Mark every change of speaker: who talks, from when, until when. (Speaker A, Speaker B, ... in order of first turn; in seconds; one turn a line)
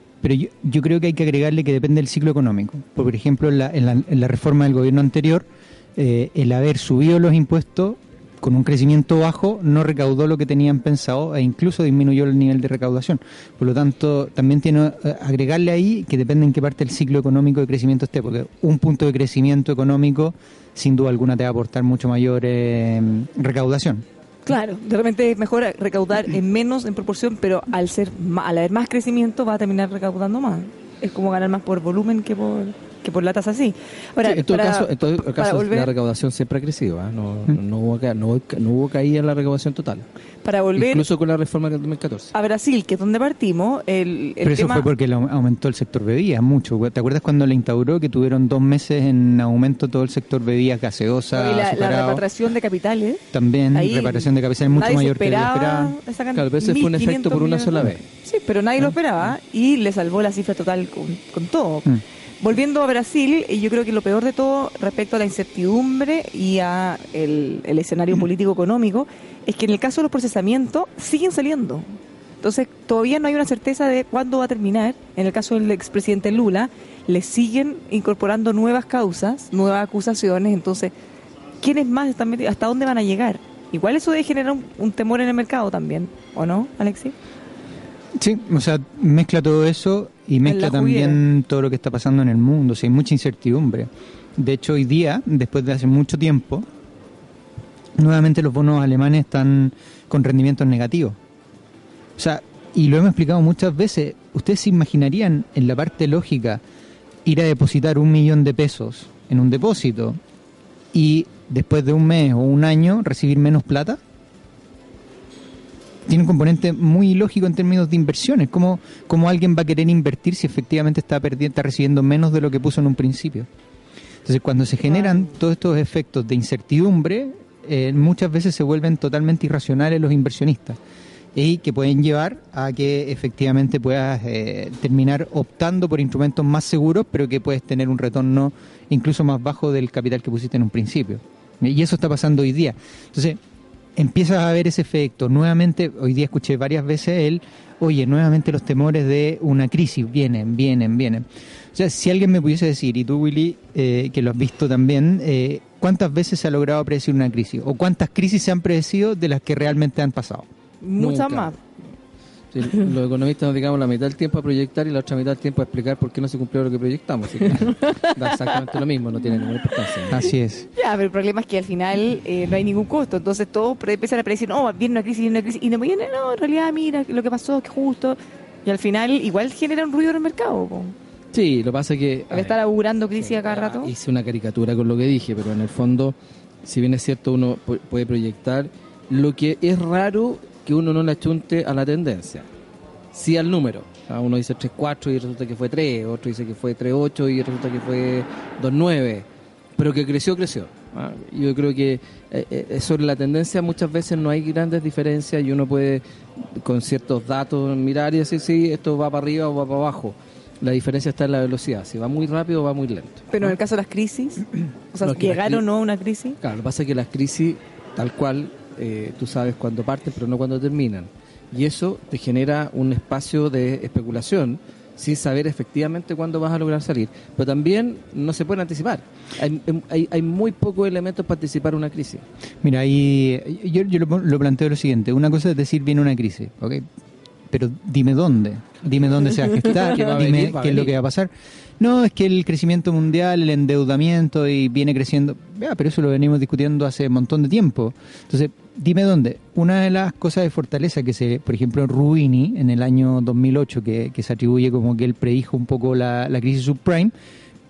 Speaker A: 0.2-24.0
Speaker B: 24.4-35.9
Speaker C: 34.2-40.0
Speaker B: 40.4-41.0
Speaker C: 40.8-42.3
Speaker B: 42.3-44.9
Speaker A: 44.4-52.3
Speaker B: 51.3-80.9
Speaker A: 53.3-56.0
Speaker C: 56.3-58.0
Speaker B: 81.6-87.2
Speaker A: 88.2-96.7
Speaker B: 90.4-91.2
Speaker A: 98.0-101.2
Speaker A: 102.2-106.6
Speaker A: 107.2-110.2
Speaker A: 110.9-114.0
Speaker A: 116.0-123.5
Speaker A: 124.2-130.8
Speaker B: 124.9-125.2
Speaker A: 131.3-143.4
Speaker A: 143.9-160.5
Speaker B: 160.8-161.6
Speaker C: 161.0-161.8
Speaker C: 162.5-170.2
Speaker B: 167.7-168.7
Speaker A: 170.1-170.7
Speaker B: 170.8-180.9
Speaker C: 181.3-182.6
Speaker B: 182.3-183.9
Speaker C: 183.1-192.5
Speaker C: 193.1-199.2
Speaker C: 199.8-213.6
Speaker B: 213.3-216.4
Speaker C: 215.0-215.6
Speaker C: 216.4-232.2
Speaker A: 232.6-236.8
Speaker A: 237.5-257.1
Speaker C: 239.0-240.9